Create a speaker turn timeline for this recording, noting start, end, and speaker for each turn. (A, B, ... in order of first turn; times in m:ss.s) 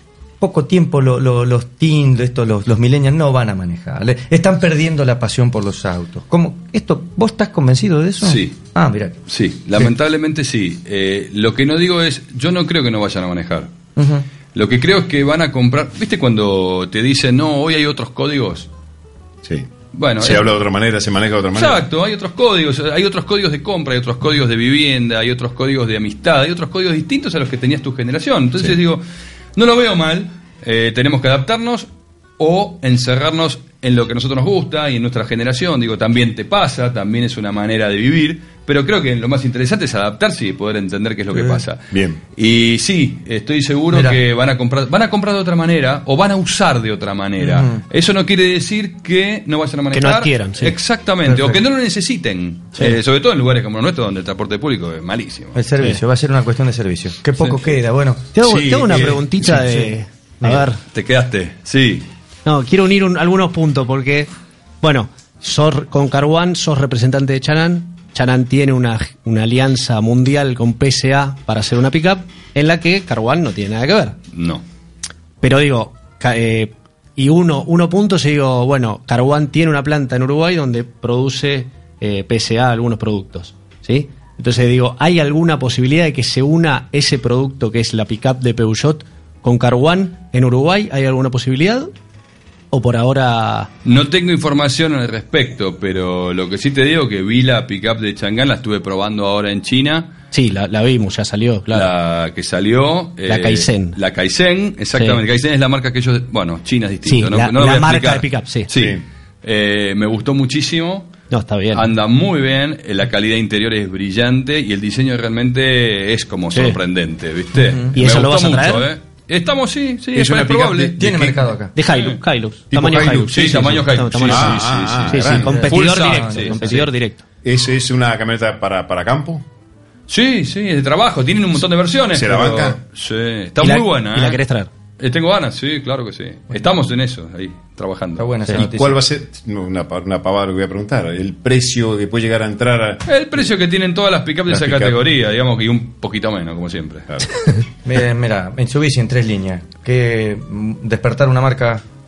0:00.4-0:09.2 A
0:08.2-0:08.6 B
0:09.3-0:13.7 B
0:14.0-0:14.3 A
0:14.5-0:18.7 B
0:19.4-0:21.8 C
0:19.9-0:20.5 B
0:21.5-0:29.0 B
0:29.6-0:55.6 B
0:41.9-0:42.2 C
0:43.9-0:44.2 A
0:47.4-0:47.8 A
0:49.9-0:50.8 D
0:51.3-0:51.6 A
0:55.6-1:00.7 A
0:57.4-0:57.7 B
0:58.4-1:00.8 D
0:58.5-0:58.9 C
1:00.9-1:02.1 B
1:02.4-1:04.3 D
1:04.8-1:14.2 D
1:14.3-1:14.6 B
1:15.4-1:31.9 D
1:32.7-1:33.7 D
1:33.8-1:40.1 B
1:40.3-1:41.9 D
1:41.7-1:51.1 B
1:43.3-1:44.0 D
1:47.1-1:48.7 D
1:48.7-1:49.0 C
1:51.3-1:51.9 D
1:51.7-2:01.0 B
1:56.5-1:56.8 D
1:58.0-1:58.9 D
2:00.2-2:01.5 C
2:01.0-2:01.7 A
2:01.8-2:07.2 D
2:01.9-2:02.2 B
2:02.7-2:05.5 C
2:03.1-2:06.9 B
2:05.5-2:06.8 A
2:07.4-2:09.4 C
2:10.1-2:14.4 B
2:12.1-2:12.8 C
2:13.6-2:14.7 D
2:15.0-2:18.3 B
2:18.2-2:19.0 A
2:18.5-2:23.0 C
2:23.1-2:27.1 B
2:24.5-2:25.0 C
2:27.8-2:31.8 A